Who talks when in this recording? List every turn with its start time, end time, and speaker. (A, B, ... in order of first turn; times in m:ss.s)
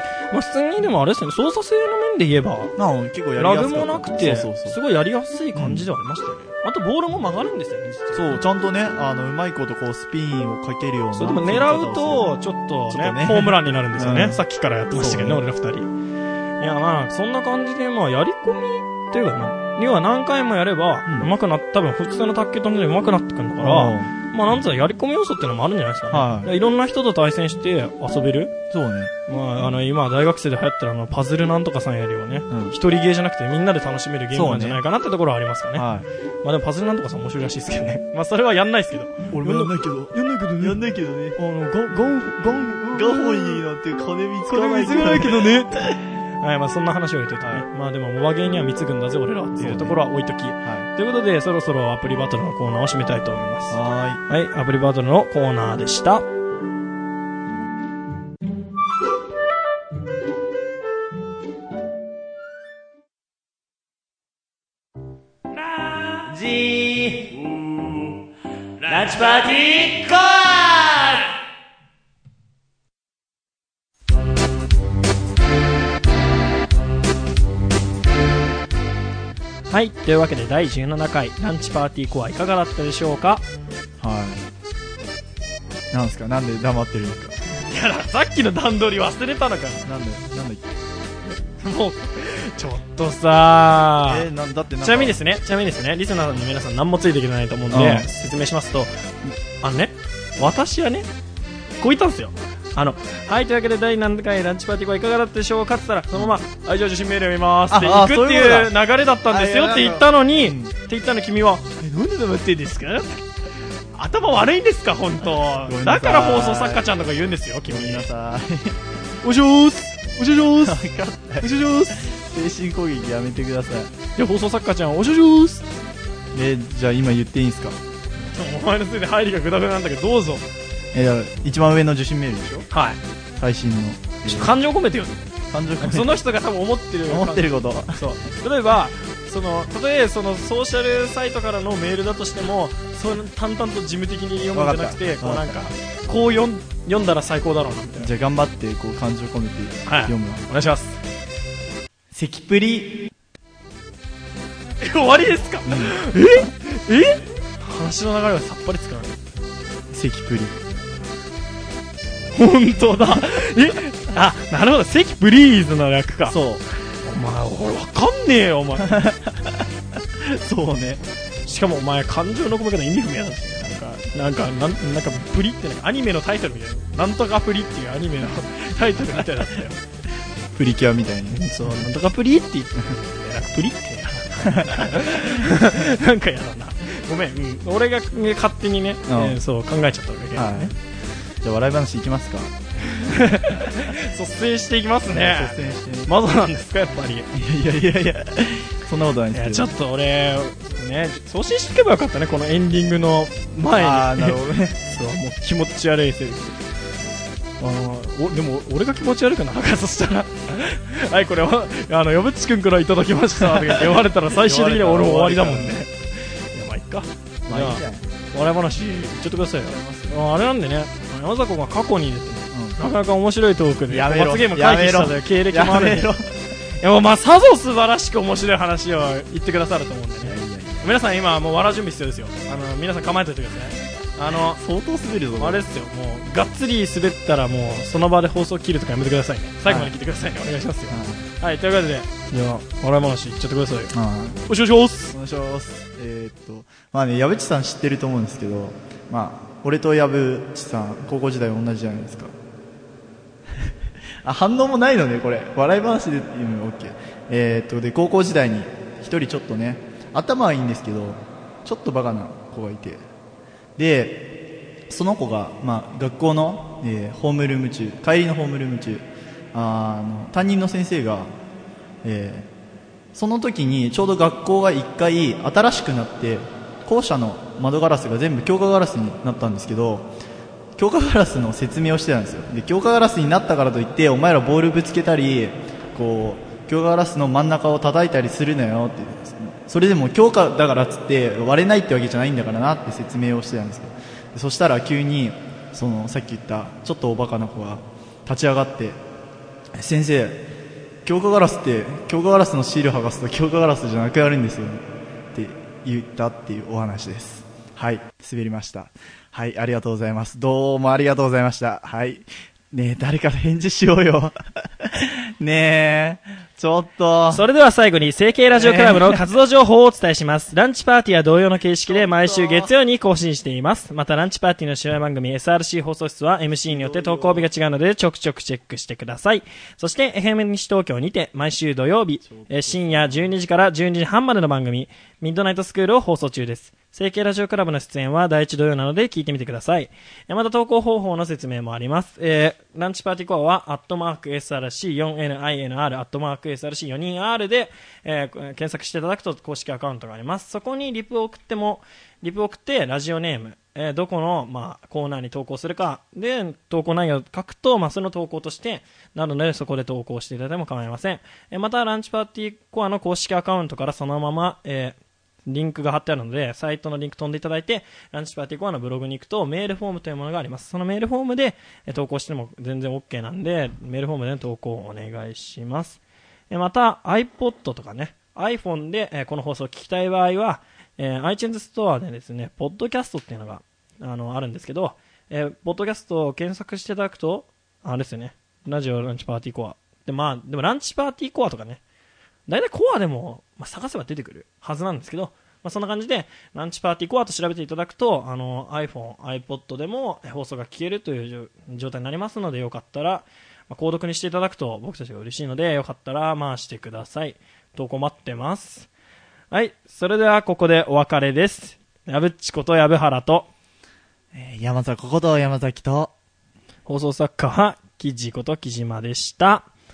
0:00.3-0:02.8 A
0:02.8-0:04.8 B
0:03.4-0:08.4 A
0:05.5-0:05.9 B
0:08.1-0:12.3 B
0:11.1-0:15.9 A
0:12.9-0:15.4 B
0:16.6-0:28.5 A
0:21.1-0:21.3 B
0:23.6-0:24.1 B
0:26.1-0:26.5 B
0:28.7-0:29.1 B
0:29.3-0:35.9 A
0:32.5-0:32.8 B
0:34.3-0:34.8 B
0:35.7-0:36.1 B
0:36.4-0:43.6 A
0:39.3-0:41.4 B
0:42.9-0:45.9 B
0:44.5-0:56.3 A
0:47.4-0:47.7 B
0:49.5-0:50.0 B
0:50.6-0:50.9 B
0:53.7-0:54.2 B
1:05.8-1:06.9 A
1:07.1-1:07.5 C
1:08.9-1:11.3 C
1:08.9-1:09.7 A
1:19.7-1:23.4 A
1:24.0-1:24.5 B
1:25.9-1:27.4 B
1:27.7-1:29.9 A
1:29.8-1:30.7 B
1:31.3-1:34.3 A
1:34.0-1:35.2 B
1:34.8-1:38.9 A
1:37.7-1:38.1 B
1:39.5-1:41.1 A
1:41.8-1:53.3 A
1:46.1-1:46.4 B
1:47.7-1:50.7 B
1:54.0-1:58.1 A
1:55.6-1:56.9 B
1:57.7-1:58.8 B
1:59.2-2:02.1 A
2:00.5-2:03.9 B
2:04.2-2:05.7 A
2:06.3-2:07.8 B
2:08.3-2:10.5 A
2:10.9-2:12.7 B
2:12.7-2:13.0 A
2:13.4-2:14.6 B
2:14.2-2:15.2 A
2:15.5-2:16.2 B
2:15.8-2:28.1 A
2:17.1-2:18.1 B
2:24.5-2:25.7 B
2:28.0-2:30.5 B
2:29.9-2:31.0 A
2:32.1-2:33.0 B
2:34.8-2:39.2 A
2:35.7-2:36.0 B
2:39.9-2:40.6 B
2:42.4-2:46.4 A
2:46.3-2:46.6 B
2:47.0-2:49.1 A
2:48.8-2:49.6 B
2:50.2-2:51.0 B
2:51.4-2:59.8 A
3:00.6-3:01.8 B
3:01.3-3:10.7 A
3:04.4-3:06.0 B
3:09.1-3:09.4 B
3:10.4-3:10.8 B
3:11.4-3:12.5 B
3:12.9-3:17.3 A
3:15.1-3:16.2 B
3:17.3-3:19.7 B
3:19.3-3:26.6 A
3:23.7-3:24.8 B
3:27.6-3:35.9 A
3:33.4-3:35.8 B
3:36.5-3:46.1 A
3:37.5-3:38.0 B
3:39.3-3:40.3 B
3:42.5-3:42.8 B
3:43.9-3:46.3 B
3:46.8-3:54.6 A
3:50.2-3:51.0 B
3:54.4-3:55.7 B
3:55.4-4:05.2 A
3:59.7-4:00.0 B
4:00.9-4:01.3 B
4:03.9-4:04.4 B
4:05.0-4:12.3 B
4:14.2-4:23.0 B
4:23.8-4:24.3 B
4:24.9-4:31.3 B
4:32.0-4:32.5 B
4:33.1-4:40.1 B
4:40.8-4:59.0 B
4:59.8-5:00.4 B
5:01.0-5:17.5 B
5:17.3-6:31.8 A
5:18.5-5:19.3 B
5:21.9-5:22.8 B
5:26.7-5:27.5 B
5:32.3-5:33.3 B
6:32.5-6:48.9 A
6:49.5-6:53.5 A
6:54.3-6:56.1 B
6:56.9-6:59.7 A